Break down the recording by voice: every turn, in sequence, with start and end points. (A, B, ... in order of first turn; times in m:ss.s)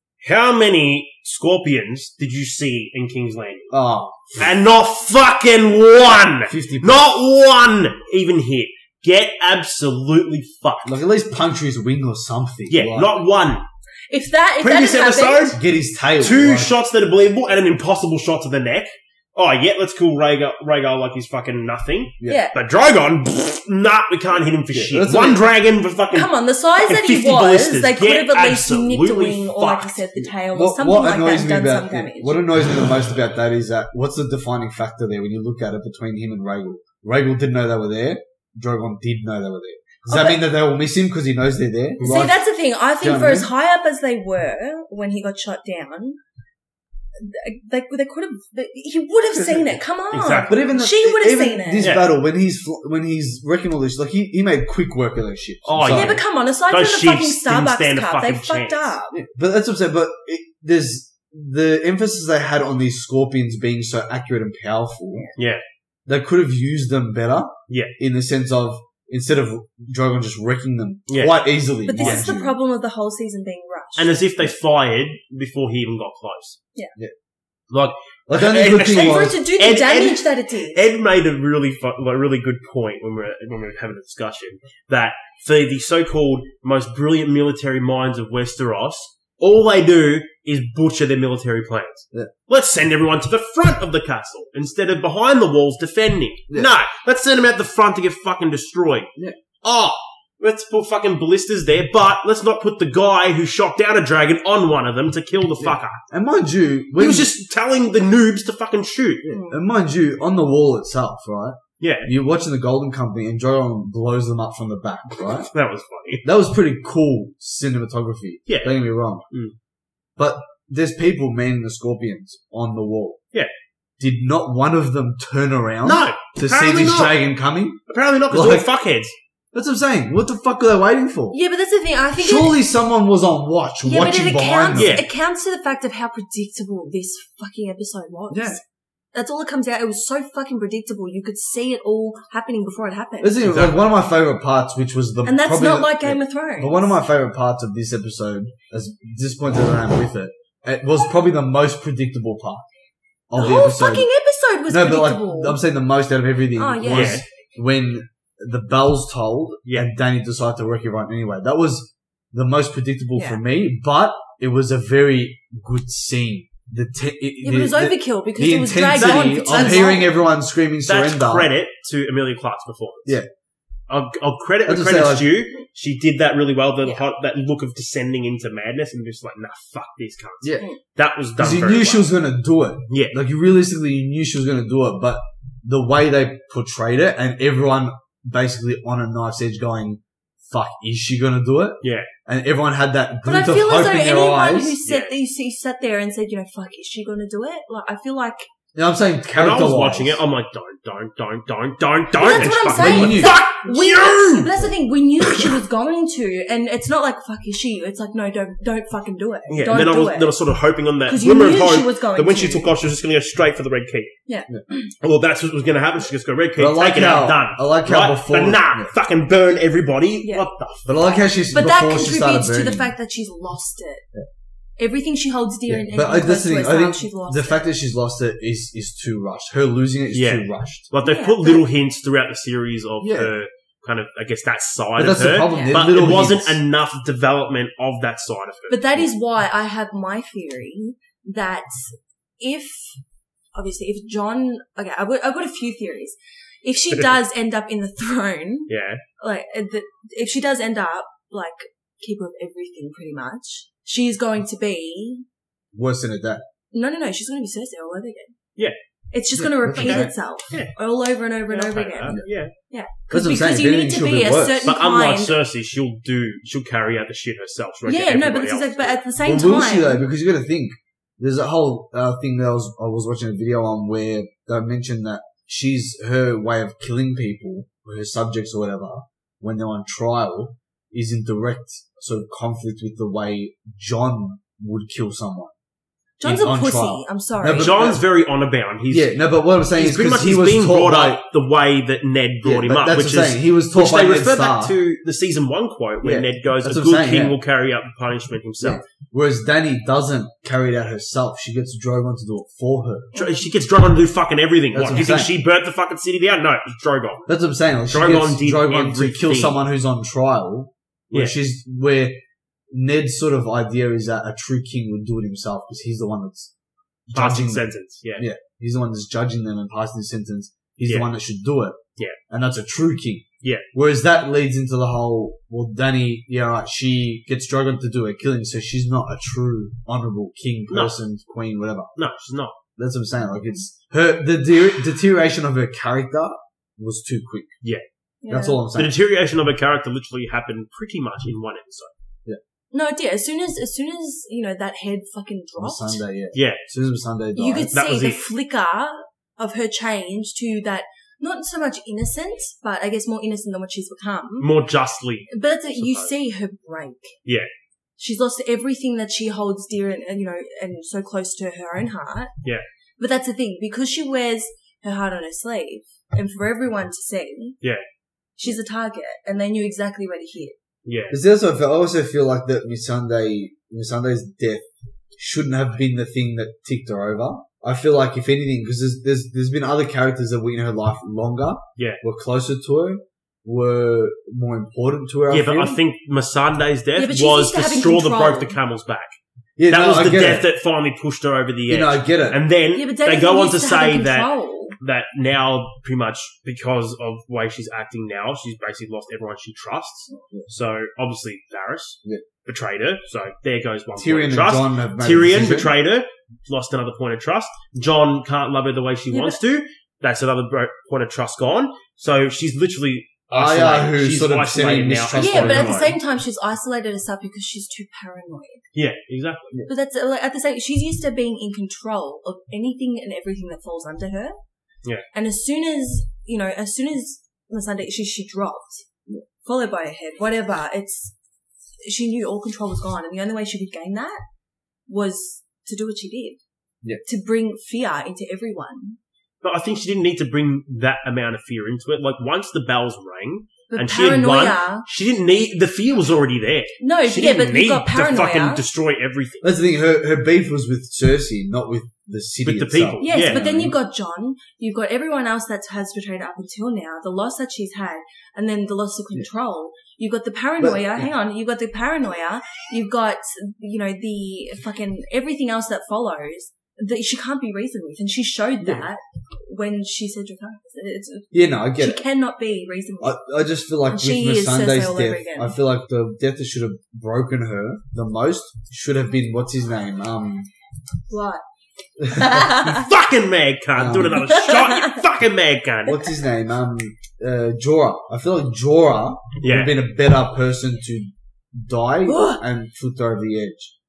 0:00.2-0:03.7 A
0:03.7-0:04.4 B
0:04.3-0:11.0 A
0:06.5-0:07.2 B
0:10.8-0:13.2 B
0:12.7-0:13.6 A
0:14.1-0:15.6 C
0:14.6-0:15.6 A
0:15.5-0:16.7 B
0:16.2-0:30.0 A
0:22.2-0:22.5 B
0:22.2-0:22.5 C
0:24.7-0:25.4 B
0:26.1-0:32.4 C
0:30.2-0:42.4 B
0:40.1-0:40.4 C
0:42.0-0:46.2 C
0:43.0-0:43.5 B
0:47.2-0:51.9 C
0:49.3-0:49.8 B
0:50.1-0:50.6 A
0:50.5-0:56.2 B
0:51.8-0:52.1 A
0:55.6-0:59.0 A
0:55.8-0:59.2 C
0:59.1-1:05.3 B
1:05.4-1:05.6 A
1:06.1-1:12.6 B
1:11.1-1:11.4 A
1:11.8-1:14.2 C
1:12.0-1:12.3 A
1:14.0-1:16.6 A
1:17.7-1:39.1 A
1:18.3-1:19.4 B
1:18.8-1:20.8 C
1:39.6-1:46.0 A
1:45.6-1:47.3 B
1:47.0-1:49.2 A
1:49.2-1:55.5 B
1:49.3-1:49.6 C
1:51.8-1:52.1 A
1:55.4-1:56.2 A
1:56.2-1:59.2 B
1:58.5-1:59.5 A
2:00.2-2:03.2 B
2:04.0-2:08.7 B
2:05.8-2:07.2 A
2:07.9-2:09.1 A
2:09.5-2:11.4 B
2:11.3-2:12.6 C
2:12.2-2:15.0 B
2:13.8-2:18.6 C
2:14.7-2:15.1 A
2:18.3-2:18.6 B
2:19.1-2:23.4 C
2:23.2-2:32.6 B
2:23.4-2:23.8 A
2:25.2-2:26.9 C
2:33.3-2:34.1 B
2:33.4-2:35.6 C
2:34.7-2:51.5 B
2:36.6-2:37.2 C
2:36.8-2:37.2 A
2:43.2-2:43.4 C
2:47.4-2:50.1 C
2:49.0-2:49.9 A
2:50.8-2:53.2 A
2:53.9-3:02.1 A
2:54.6-2:55.3 B
3:00.4-3:00.7 B
3:01.4-3:14.8 B
3:02.9-3:03.2 A
3:11.8-3:12.1 A
3:13.2-3:18.5 C
3:14.8-3:15.1 A
3:18.7-3:20.2 B
3:19.3-3:24.6 A
3:22.1-3:30.3 C
3:22.7-3:23.4 B
3:29.5-3:34.1 A
3:31.1-3:32.7 C
3:34.3-3:34.9 C
3:35.0-3:41.0 A
3:36.6-3:38.9 B
3:40.2-3:40.5 C
3:40.8-3:42.9 B
3:41.5-3:44.0 C
3:44.8-3:47.6 C
3:45.7-3:50.9 B
3:50.1-3:59.0 A
3:51.0-3:51.6 C
3:53.0-3:53.3 B
3:55.0-3:56.6 B
3:55.5-3:55.8 C
3:58.7-4:03.0 C
4:03.5-4:15.2 C
4:08.7-4:09.0 A
4:15.7-4:16.4 B
4:16.7-4:18.3 C
4:19.1-4:25.4 C
4:19.4-4:20.1 B
4:19.7-4:20.7 A
4:21.5-4:22.5 A
4:23.1-4:24.7 B
4:24.6-4:29.0 A
4:27.8-4:30.0 C
4:29.2-4:45.5 B
4:46.2-4:47.9 C
4:46.2-4:48.0 B
4:47.6-4:49.2 A
4:48.9-4:51.2 B
4:49.7-4:58.8 A
4:52.4-4:54.7 B
4:56.0-4:57.4 B
4:58.6-5:03.1 B
5:03.1-5:03.4 C
5:03.1-5:07.3 A
5:04.7-5:05.3 B
5:07.3-5:12.2 B
5:07.9-5:09.6 A
5:11.1-5:11.4 A
5:12.7-5:16.5 B
5:17.1-5:32.0 B
5:17.1-5:18.3 A
5:30.7-5:31.0 A
5:32.0-5:32.6 A
5:32.8-5:37.5 B
5:38.2-5:38.6 C
5:38.3-5:39.0 B
5:38.7-5:41.9 A
5:42.7-5:46.0 C
5:45.6-5:47.7 B
5:46.3-5:46.6 A
5:47.4-5:54.5 C
5:47.7-5:48.2 A
5:54.4-5:56.1 A
5:55.3-5:57.1 C
5:58.0-6:02.3 C
6:03.0-6:07.6 C
6:08.4-6:10.6 C
6:10.8-6:11.2 A
6:11.1-6:25.8 B
6:25.3-6:29.2 A
6:27.0-6:28.5 C
6:29.6-6:30.5 B
6:29.7-6:56.0 A
6:31.7-6:32.4 B
6:32.7-6:34.8 C
6:40.1-6:40.5 B
6:44.0-6:45.7 B
6:49.1-6:49.4 C
6:53.3-6:55.9 B
6:55.2-6:58.6 C
6:58.7-6:59.5 A
6:59.7-7:04.4 C
7:05.1-7:08.8 C
7:09.4-7:11.1 C
7:11.8-7:14.2 C
7:14.9-7:16.4 C
7:17.0-7:19.0 C
7:19.4-7:29.5 A
7:23.7-7:24.8 C
7:26.8-7:28.6 C
7:29.4-7:33.8 B
7:32.4-7:33.4 A
7:33.0-7:53.2 C
7:40.6-7:41.1 B
7:51.3-7:52.0 B
7:53.0-8:00.5 B
7:53.8-7:55.6 C
8:01.1-8:01.4 C
8:02.0-8:02.6 B
8:02.1-8:02.8 C
8:02.6-8:06.0 A
8:03.7-8:04.3 B
8:04.1-8:05.0 C
8:05.8-8:13.7 B
8:09.4-8:09.8 A
8:12.1-8:12.4 C